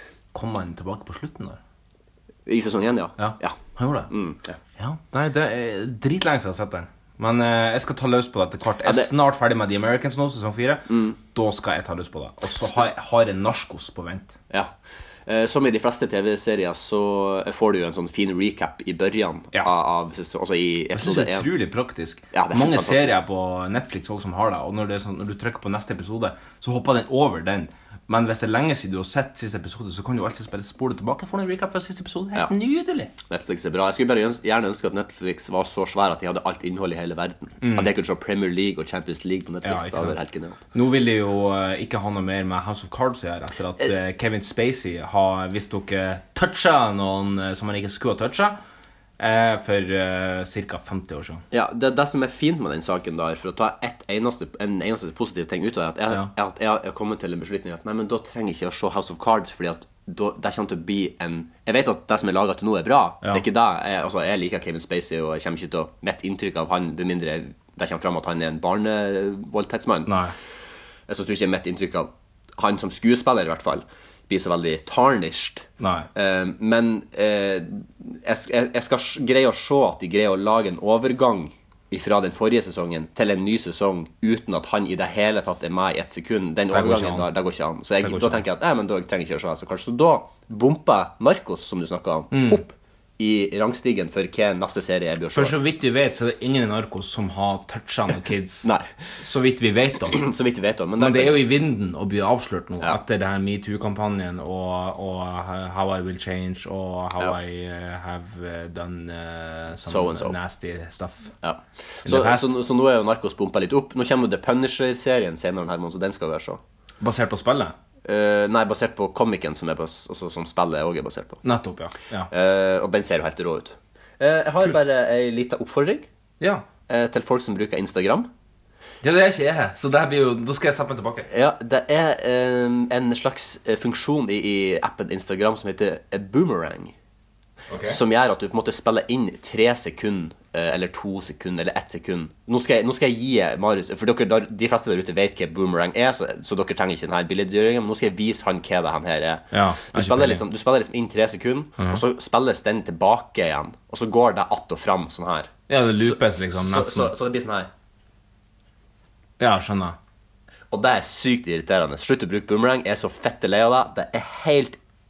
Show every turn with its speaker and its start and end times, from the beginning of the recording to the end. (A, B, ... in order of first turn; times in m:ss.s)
0:00.3-0:01.6 A
0:02.4-0:03.6 B
0:03.2-0:04.1 A
0:04.1-0:04.6 B
0:04.8-0:14.3 A
0:08.8-0:09.1 B
0:10.9-0:11.2 B
0:15.2-0:21.5 B
0:20.9-0:33.1 A
0:22.3-0:23.2 B
0:33.3-0:40.6 B
0:37.6-0:37.9 A
0:39.6-0:40.2 A
0:40.7-0:48.6 A
0:49.2-0:51.4 A
0:51.5-1:10.2 B
1:10.0-1:10.3 A
1:11.1-1:35.6 B
1:15.8-1:16.1 A
1:26.7-1:27.3 A
1:28.0-1:28.4 A
1:32.3-1:32.6 A
1:35.3-1:40.2 A
1:40.1-1:41.4 B
1:41.0-1:51.3 A
1:49.9-1:50.4 B
1:51.4-1:56.6 B
1:52.0-1:52.5 A
1:57.0-1:57.8 A
1:58.0-2:01.4 B
2:01.4-2:02.3 A
2:02.3-2:06.1 B
2:06.4-2:06.6 A
2:06.9-2:08.3 B
2:09.0-2:11.3 A
2:11.3-2:16.9 B
2:17.7-2:18.0 A
2:17.8-2:37.7 B
2:29.5-2:30.4 A
2:35.7-2:37.1 A
2:39.4-2:40.0 A
2:40.7-2:44.8 B